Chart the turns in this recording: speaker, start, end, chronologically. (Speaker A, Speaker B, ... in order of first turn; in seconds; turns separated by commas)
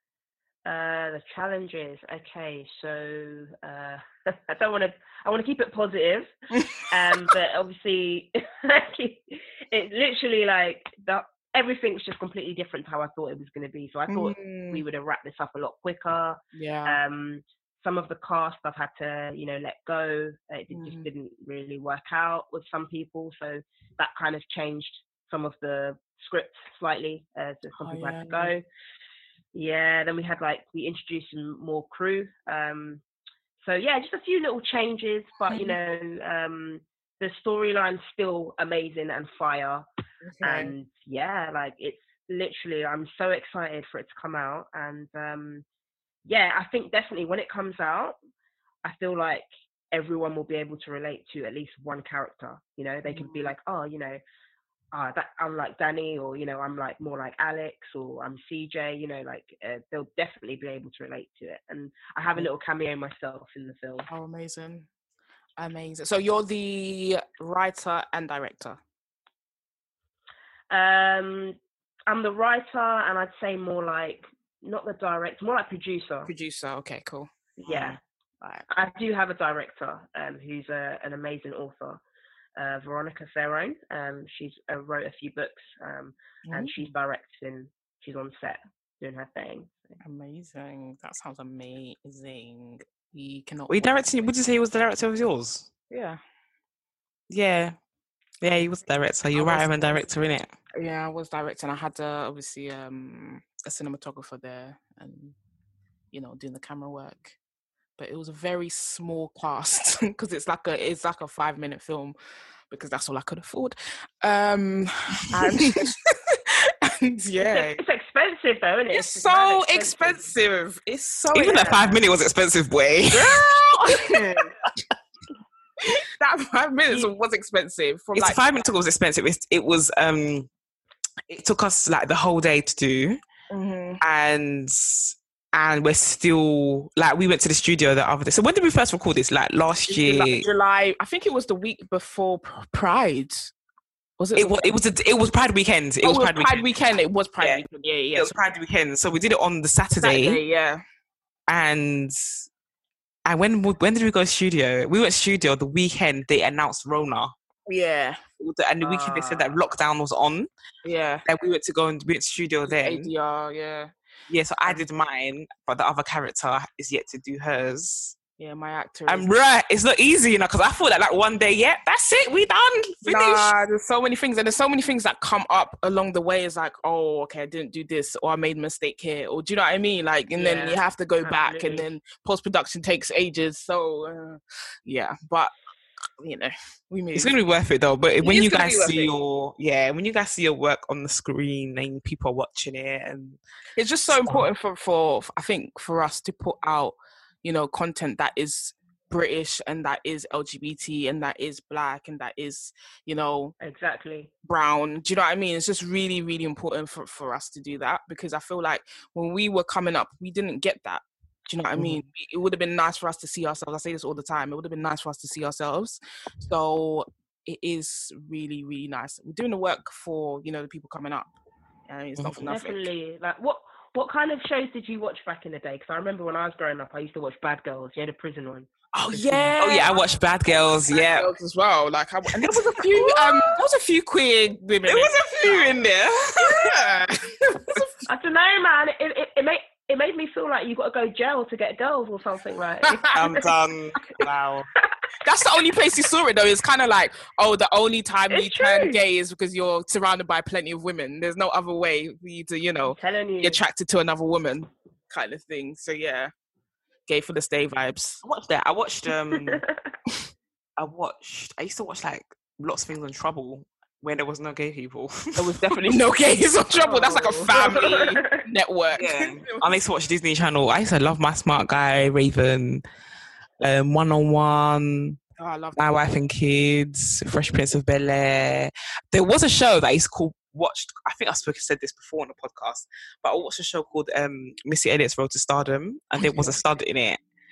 Speaker A: 0.7-6.3, Speaker B: 6.5-6.9, Speaker A: 6.9-28.6, Speaker B: 14.1-14.8, Speaker B: 16.5-17.0, Speaker B: 20.7-21.1, Speaker B: 27.8-28.5, Speaker A: 29.5-33.0, Speaker A: 33.6-39.9, Speaker B: 35.5-35.8, Speaker B: 40.2-40.7, Speaker A: 40.4-45.6, Speaker A: 46.3-48.2, Speaker A: 48.9-54.2, Speaker B: 53.1-53.5, Speaker A: 54.9-64.1, Speaker B: 64.1-64.9, Speaker B: 65.6-68.8, Speaker A: 70.7-76.3, Speaker B: 76.3-78.7, Speaker A: 77.7-78.0, Speaker A: 78.7-82.0, Speaker A: 82.6-90.0, Speaker B: 86.5-86.9, Speaker B: 90.0-93.9, Speaker C: 93.7-95.7, Speaker B: 95.9-96.2, Speaker C: 97.3-97.8, Speaker C: 98.4-100.5, Speaker B: 99.3-100.1, Speaker B: 100.8-105.4, Speaker B: 106.1-107.4, Speaker B: 108.0-112.2, Speaker B: 112.7-117.8, Speaker A: 117.5-120.3, Speaker B: 118.9-122.0, Speaker C: 121.3-123.4, Speaker B: 123.1-124.5, Speaker B: 125.8-128.4, Speaker C: 128.2-130.5, Speaker C: 131.3-133.2, Speaker B: 133.5-134.0, Speaker C: 134.0-140.5, Speaker B: 139.9-143.5, Speaker B: 144.2-144.7, Speaker C: 144.3-146.6, Speaker B: 146.0-148.3, Speaker C: 148.1-150.4, Speaker B: 150.0-150.8, Speaker C: 151.5-152.2, Speaker C: 153.2-157.3, Speaker B: 157.7-158.2, Speaker C: 158.4-160.5, Speaker A: 158.8-159.6, Speaker B: 160.8-161.2, Speaker C: 161.3-163.1, Speaker B: 162.7-163.9, Speaker C: 164.3-168.2, Speaker B: 168.4-169.3, Speaker C: 169.1-173.5, Speaker B: 173.0-185.5, Speaker A: 180.4-181.9, Speaker B: 186.2-187.3, Speaker C: 187.2-193.4, Speaker B: 188.2-189.1, Speaker B: 193.8-203.5, Speaker C: 194.1-194.4, Speaker A: 203.6-204.3, Speaker B: 204.4-221.3, Speaker B: 221.9-222.8, Speaker C: 222.2-222.5, Speaker A: 222.5-230.0, Speaker B: 228.9-230.0, Speaker C: 229.6-231.3, Speaker B: 230.9-235.8, Speaker C: 232.3-233.6, Speaker C: 234.8-236.9, Speaker B: 236.4-238.1, Speaker A: 238.1-243.4, Speaker B: 242.8-243.3, Speaker C: 243.2-244.7, Speaker B: 245.2-256.3, Speaker A: 248.3-249.0, Speaker A: 252.8-253.6, Speaker B: 257.1-258.2, Speaker C: 258.2-259.6, Speaker A: 259.3-259.8, Speaker C: 260.8-265.8, Speaker B: 265.4-269.7, Speaker A: 266.8-268.4, Speaker C: 268.9-272.8, Speaker C: 273.6-275.2, Speaker B: 275.4-276.0, Speaker C: 275.8-287.2, Speaker B: 286.2-286.6